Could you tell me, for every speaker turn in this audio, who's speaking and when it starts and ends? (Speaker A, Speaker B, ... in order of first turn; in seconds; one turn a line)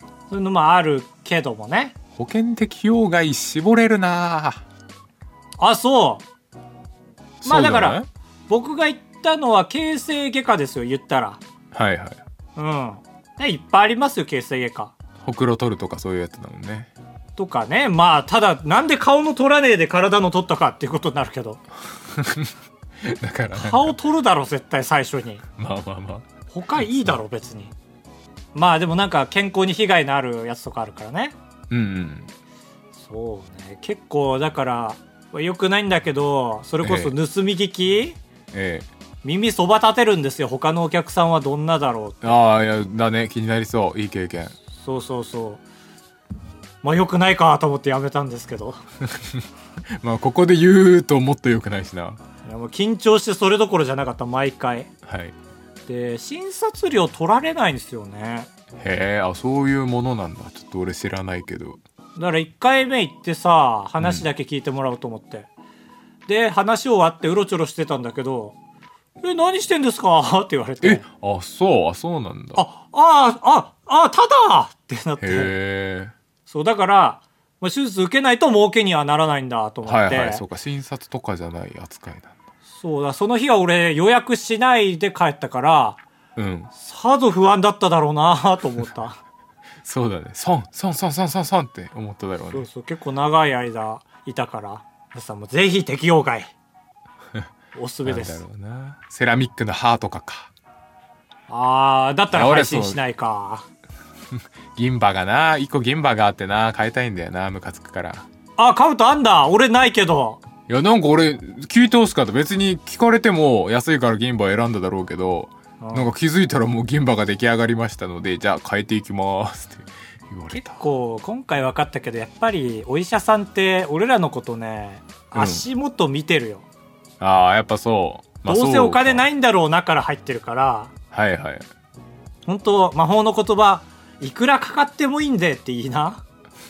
Speaker A: 0.3-2.0
Speaker B: 2.2-4.6
Speaker A: 5.6-6.2
Speaker B: 7.4-8.1
Speaker A: 7.4-11.4
Speaker B: 11.7-12.2
Speaker A: 12.6-14.9
Speaker B: 15.2-16.9
Speaker A: 17.4-21.6
Speaker B: 22.1-23.9
Speaker A: 23.5-25.4
Speaker B: 25.6-27.1
Speaker A: 26.5-27.7
Speaker A: 28.5-31.3
Speaker B: 31.7-32.3
Speaker A: 32.9-38.2
Speaker B: 36.8-37.1
Speaker B: 38.5-38.9
Speaker A: 39.2-42.4
Speaker B: 42.2-44.5
Speaker A: 44.7-45.6
Speaker A: 46.8-48.8
Speaker B: 49.1-49.4
Speaker B: 50.0-52.2
Speaker A: 52.4-54.9
Speaker B: 55.0-55.3
Speaker A: 55.9-58.5
Speaker B: 58.8-61.8
Speaker A: 62.1-65.5
Speaker B: 64.0-64.2
Speaker A: 66.3-68.5
Speaker A: 69.2-71.0
Speaker B: 70.8-72.6
Speaker A: 72.5-75.5
Speaker B: 75.2-76.1
Speaker A: 76.5-80.4
Speaker B: 79.8-82.3
Speaker A: 82.7-86.0
Speaker B: 86.3-86.7
Speaker A: 86.7-89.2
Speaker B: 89.8-92.6
Speaker A: 92.4-96.5
Speaker A: 97.7-98.4
Speaker B: 98.0-100.5
Speaker A: 101.5-103.7
Speaker B: 102.3-103.0
Speaker B: 104.4-108.3
Speaker A: 108.6-110.4
Speaker B: 110.7-120.8
Speaker A: 115.8-116.1
Speaker A: 120.5-126.7
Speaker B: 125.3-125.6
Speaker B: 127.2-129.2
Speaker A: 128.4-130.9
Speaker B: 131.1-131.6
Speaker A: 132.4-136.2